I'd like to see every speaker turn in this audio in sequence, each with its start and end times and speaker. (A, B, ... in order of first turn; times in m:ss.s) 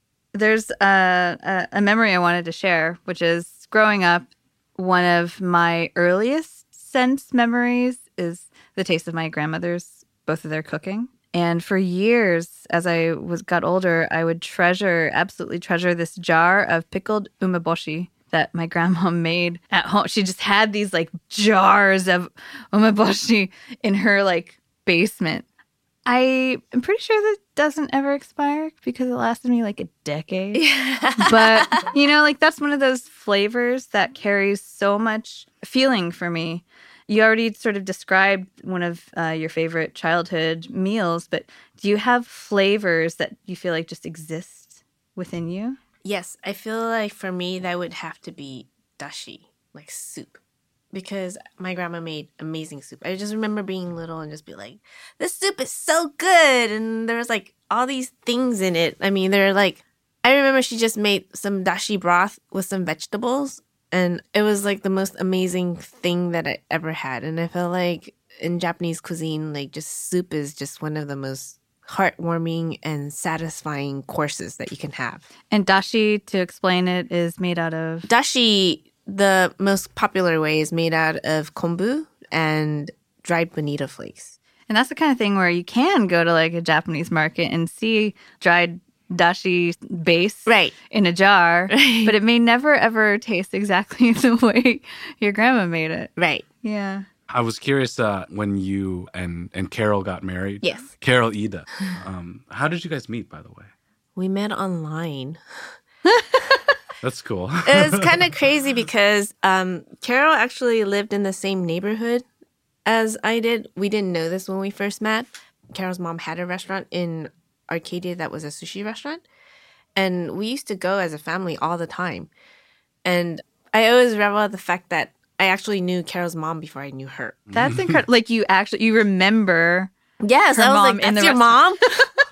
0:00.3-0:25.5 A
0:26.1-0:30.6 A
0:30.5-0:31.8 B
0:31.2-0:45.8 A
0:46.0-0:50.4 B
0:50.9-1:15.3 B
1:15.5-1:18.1 A
1:18.1-1:24.4 B
1:24.7-1:37.1 A
1:30.5-1:30.7 B
1:31.7-1:32.2 B
1:36.2-1:36.5 B
1:37.3-1:43.7 C
1:40.6-1:40.9 B
1:44.2-1:45.4 B
1:47.0-1:48.1 C
1:47.6-1:52.2 B
1:52.8-1:59.2 B
2:00.0-2:02.3 B
2:03.0-2:07.4 B
2:07.5-2:08.0 C
2:07.5-2:09.9 A
2:10.2-2:12.1 B
2:10.5-2:12.0 A